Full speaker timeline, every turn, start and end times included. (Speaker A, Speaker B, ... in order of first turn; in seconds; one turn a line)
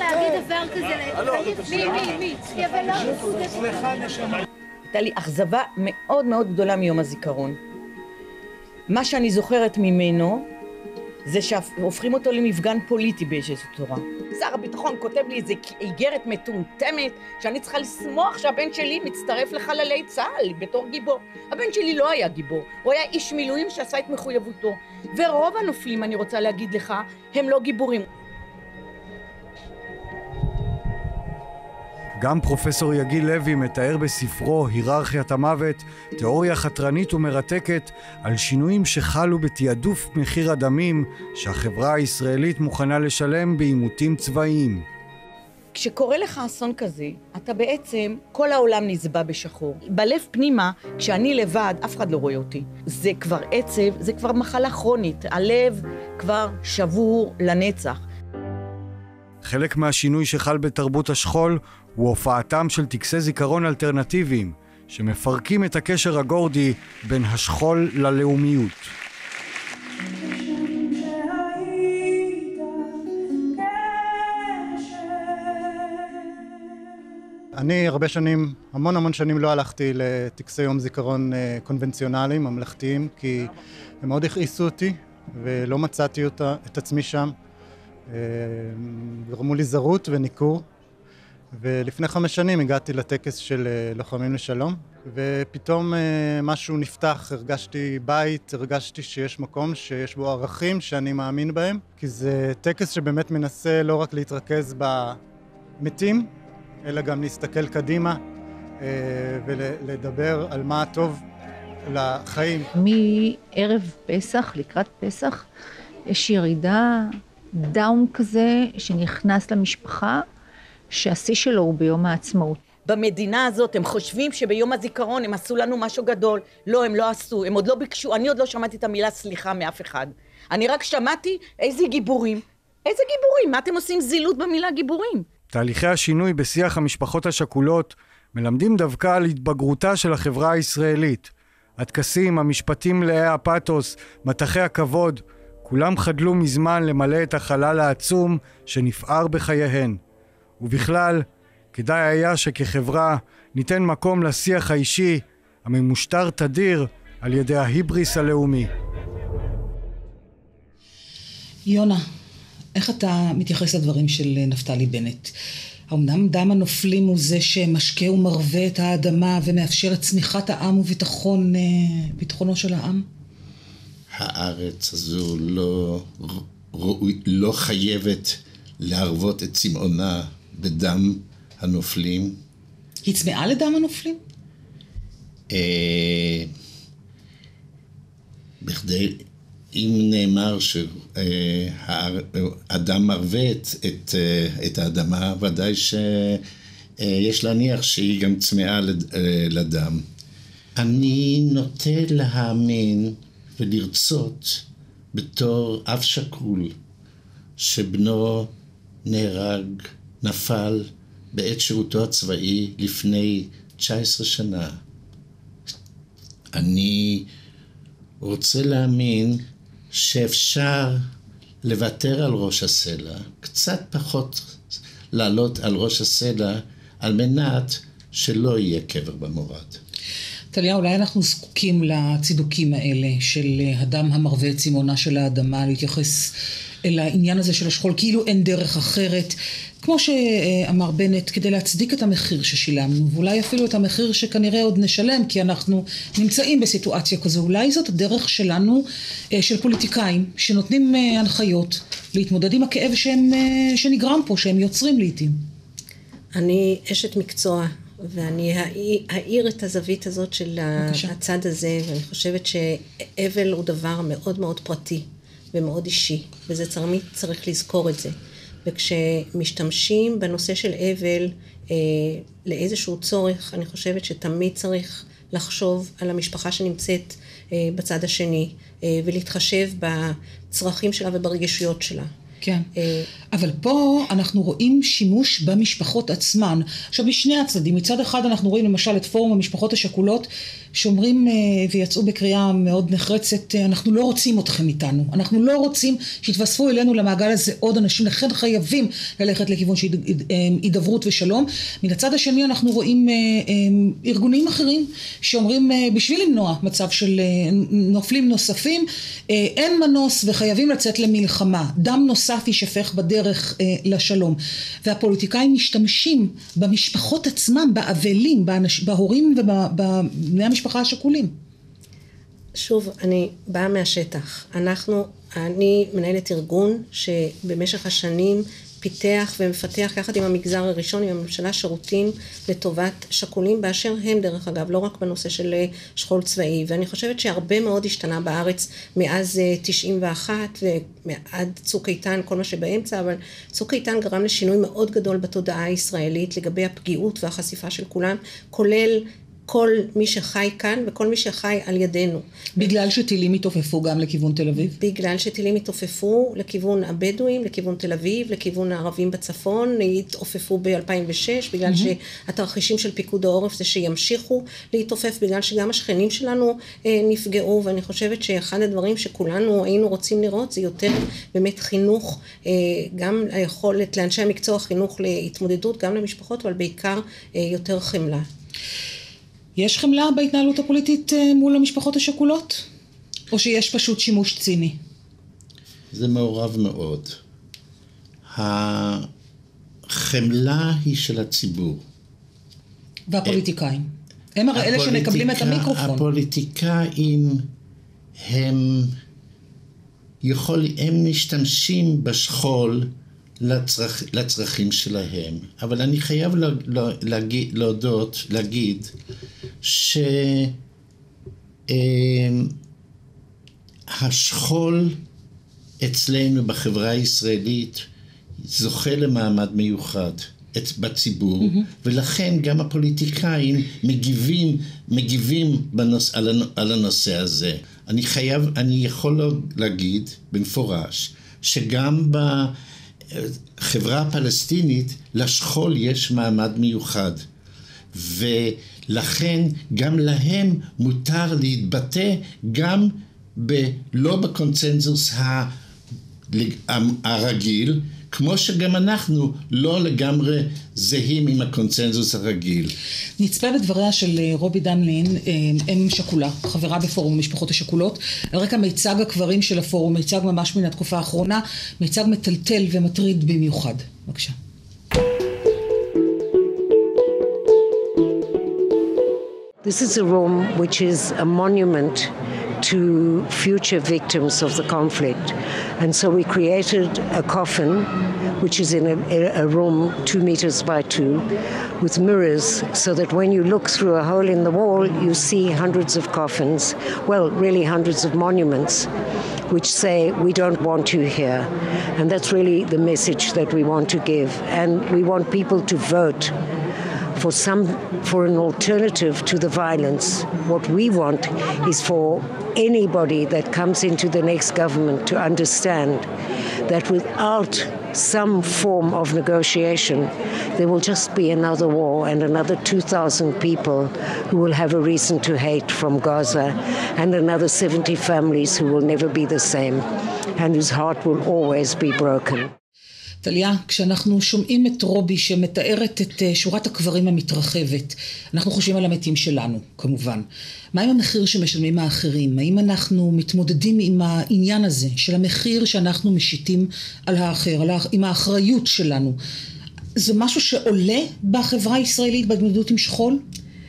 Speaker A: 4.9-7.6
Speaker A: 8.9-10.5
Speaker A: 11.3-28.1
Speaker B: 32.2-44.9
Speaker A: 45.7-58.0
Speaker B: 59.4-68.9
Speaker C: 77.5-87.3
Speaker C: 88.1-90.6
Speaker C: 91.6-105.2
Speaker C: 105.8-106.3
Speaker C: 106.8-108.2
Speaker C: 108.8-111.2
Speaker C: 111.9-112.7
Speaker D: 112.8-115.4
Speaker D: 116.2-116.8
Speaker D: 117.7-120.2
Speaker D: 121.0-122.6
Speaker A: 122.8-135.3
Speaker B: 135.5-150.0
Speaker B: 150.6-158.7
Speaker E: 161.7-162.0
Speaker E: 162.7-165.3
Speaker E: 165.9-173.1
Speaker F: 174.1-182.4
Speaker E: 183.0-184.2
Speaker F: 185.5-186.5
Speaker F: 188.6-196.4
Speaker F: 197.0-200.0
Speaker F: 200.8-206.7
Speaker F: 207.6-208.5
Speaker F: 209.1-214.8
Speaker F: 216.5-217.3
Speaker F: 218.2-221.1
Speaker F: 221.6-224.6
Speaker F: 225.1-229.8
Speaker E: 230.5-255.4
Speaker G: 256.3-268.1
Speaker E: 260.8-261.1
Speaker G: 268.6-282.1
Speaker E: 282.4-282.7
Speaker G: 282.8-283.1
Speaker E: 283.3-321.3
Speaker G: 322.6-352.2
Speaker E: 352.6-354.8
Speaker G: 354.8-378.3
Speaker E: 361.7-361.9
Speaker E: 379.6-382.6
Speaker E: 383.3-384.8
Speaker F: 385.9-387.2
Speaker F: 388.3-389.1
Speaker F: 389.9-391.8
Speaker E: 393.1-396.1
Speaker F: 394.6-397.5
Speaker F: 398.2-398.9
Speaker F: 400.2-408.9
Speaker F: 409.6-410.6
Speaker F: 411.7-412.6
Speaker F: 413.9-415.0
Speaker F: 415.8-417.9
Speaker F: 418.4-432.6
Speaker F: 433.1-437.2
Speaker F: 437.9-445.5
Speaker F: 446.3-452.8
Speaker E: 453.2-464.3
Speaker H: 469.6-481.3
Speaker H: 481.8-488.9
Speaker H: 489.5-496.4
Speaker H: 497.2-506.1
Speaker H: 506.7-522.5
Speaker E: 523.2-539.2
Speaker E: 540.0-543.2